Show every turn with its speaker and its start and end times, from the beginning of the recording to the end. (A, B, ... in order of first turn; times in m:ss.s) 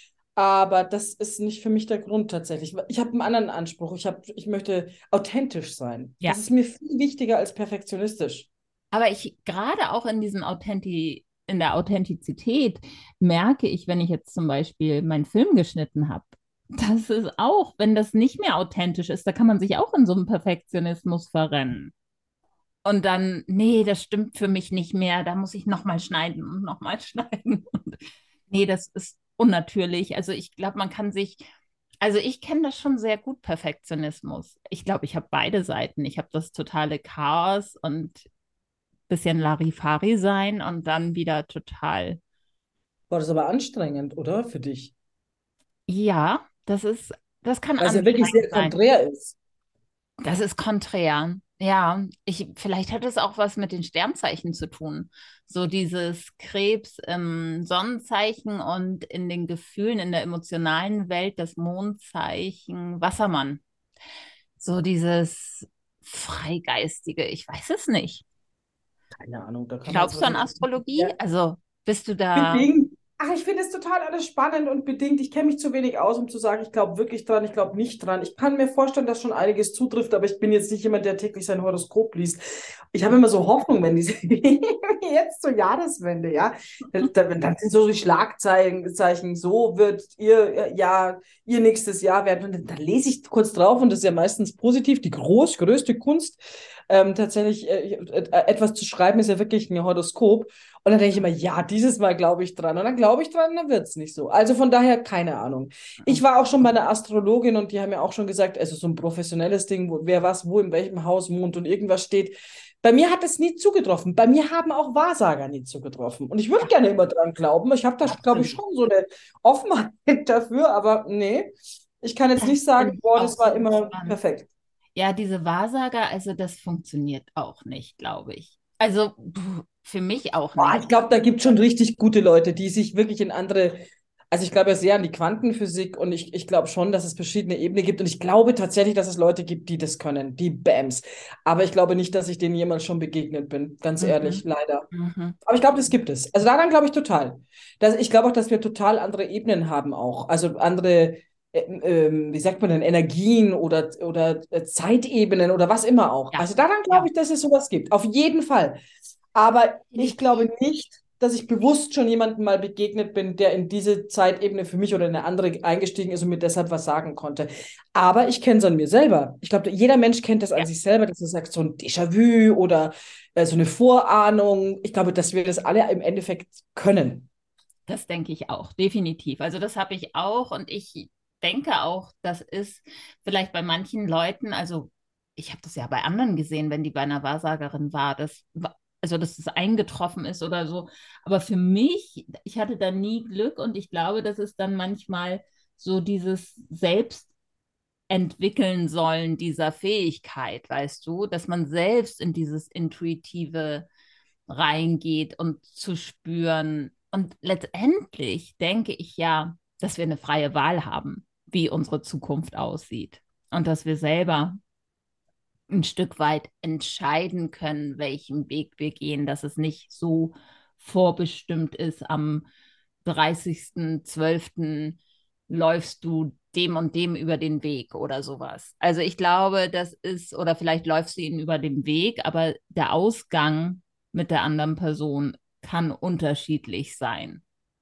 0:00.4-0:08.5 A
0:08.9-0:21.9 B
0:22.8-0:31.4 B
0:32.0-0:38.2 B
0:39.1-0:42.2 B
0:43.1-0:44.9 A
0:45.9-0:48.8 B
0:47.8-0:49.4 A
0:50.2-1:03.6 B
1:04.6-1:08.2 B
1:09.2-1:11.1 A
1:09.9-1:12.7 B
1:12.3-2:04.5 A
1:58.0-1:58.6 B
2:02.4-2:04.2 B
2:04.9-2:10.9 B
2:10.6-2:13.8 A
2:14.3-2:24.9 A
2:24.0-2:25.4 B
2:25.4-2:38.8 A
2:36.3-2:37.1 B
2:39.3-2:57.3 A
2:39.9-2:40.4 B
2:57.9-3:17.3 B
3:18.1-3:23.9 B
3:24.5-3:34.6 B
3:35.7-3:42.4 B
3:43.0-3:57.4 B